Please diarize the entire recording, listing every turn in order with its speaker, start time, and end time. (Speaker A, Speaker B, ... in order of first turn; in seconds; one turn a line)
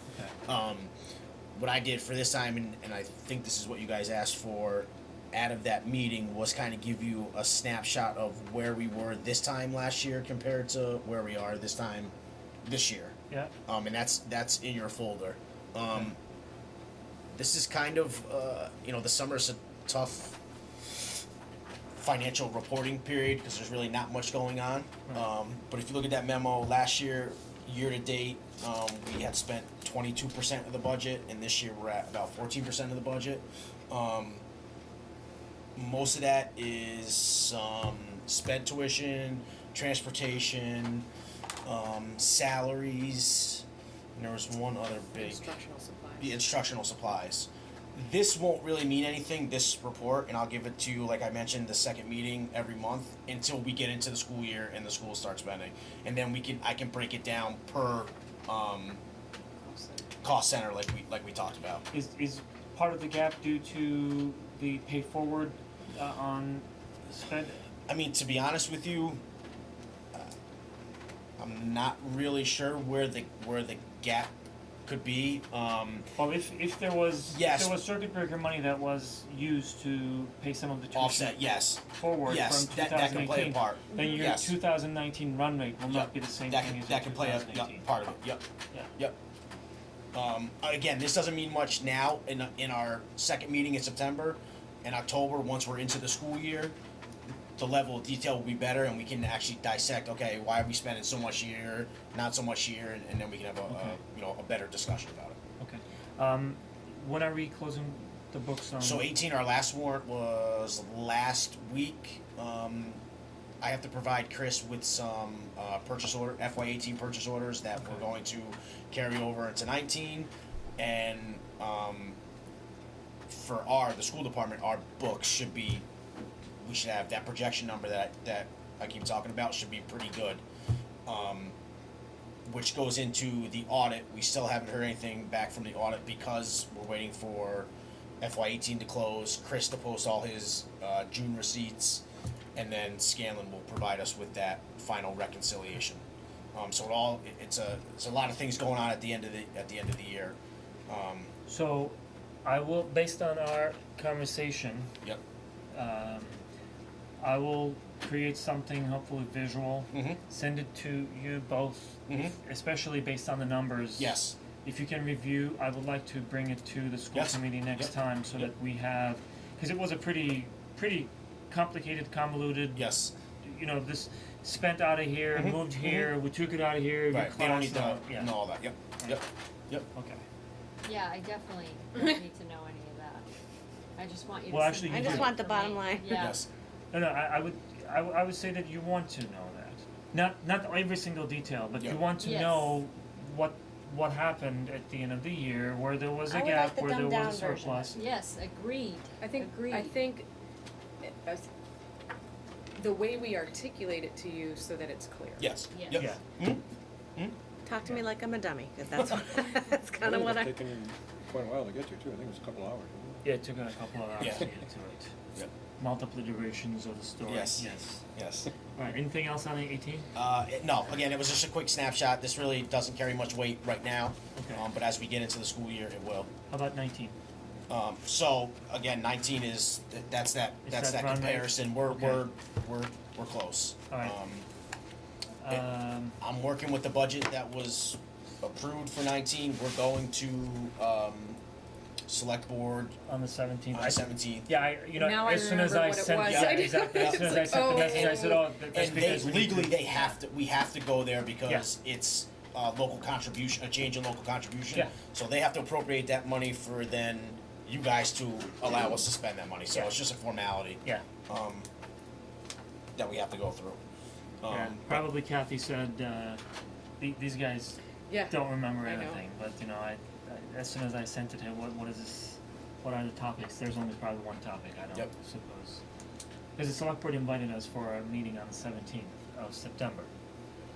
Speaker A: 0.1-0.3
Speaker B: 0.5-0.9
Speaker B: 1.6-12.1
Speaker B: 12.7-13.2
Speaker B: 13.7-16.2
Speaker B: 17.3-21.1
Speaker B: 22.0-34.4
Speaker B: 35.8-41.1
Speaker B: 41.6-43.6
Speaker B: 44.1-45.5
Speaker C: 45.1-46.4
Speaker B: 46.2-59.0
Speaker C: 59.6-60.1
Speaker B: 60.2-61.8
Speaker A: 61.9-67.6
Speaker B: 67.9-69.2
Speaker B: 71.4-74.3
Speaker B: 74.9-76.1
Speaker A: 76.2-87.9
Speaker B: 77.3-77.8
Speaker B: 80.9-84.5
Speaker C: 83.9-84.2
Speaker B: 85.9-88.4
Speaker B: 90.1-96.7
Speaker B: 97.6-105.4
Speaker A: 103.7-104.0
Speaker A: 105.6-109.1
Speaker B: 108.8-113.0
Speaker B: 113.6-122.2
Speaker A: 117.8-118.1
Speaker B: 123.3-125.8
Speaker B: 126.6-130.4
Speaker B: 131.1-131.6
Speaker B: 132.5-142.0
Speaker B: 142.6-146.0
Speaker B: 146.5-150.4
Speaker B: 150.9-151.3
Speaker A: 151.5-154.9
Speaker A: 155.7-156.4
Speaker A: 157.2-172.8
Speaker B: 159.9-160.2
Speaker B: 162.1-162.4
Speaker B: 164.0-164.4
Speaker B: 167.1-168.5
Speaker B: 172.8-173.1
Speaker A: 173.4-178.4
Speaker B: 175.3-176.1
Speaker B: 177.1-179.9
Speaker A: 179.9-180.2
Speaker D: 180.8-183.3
Speaker D: 184.0-186.4
Speaker A: 184.5-185.4
Speaker E: 184.9-186.1
Speaker B: 186.1-186.5
Speaker A: 186.9-198.1
Speaker D: 192.2-192.8
Speaker E: 196.3-198.0
Speaker D: 197.9-200.0
Speaker C: 199.2-200.3
Speaker C: 201.0-201.4
Speaker C: 202.8-205.5
Speaker B: 205.4-206.6
Speaker D: 205.7-206.1
Speaker A: 205.9-206.2
Speaker E: 207.7-210.6
Speaker F: 210.0-213.2
Speaker A: 213.2-215.1
Speaker B: 214.2-214.5
Speaker A: 215.8-218.0
Speaker B: 217.2-218.5
Speaker A: 218.8-220.1
Speaker B: 220.2-226.3
Speaker A: 224.4-224.7
Speaker A: 226.5-227.2
Speaker B: 227.7-234.5
Speaker A: 230.7-232.2
Speaker A: 233.9-234.2
Speaker A: 235.4-236.2
Speaker B: 236.2-241.4
Speaker B: 242.1-242.9
Speaker A: 243.1-250.2
Speaker B: 243.7-244.5
Speaker C: 244.9-249.2
Speaker B: 246.2-261.7
Speaker B: 262.9-263.8
Speaker B: 264.4-265.1
Speaker A: 264.5-266.4
Speaker A: 267.0-275.8
Speaker C: 268.1-269.2
Speaker A: 276.6-280.1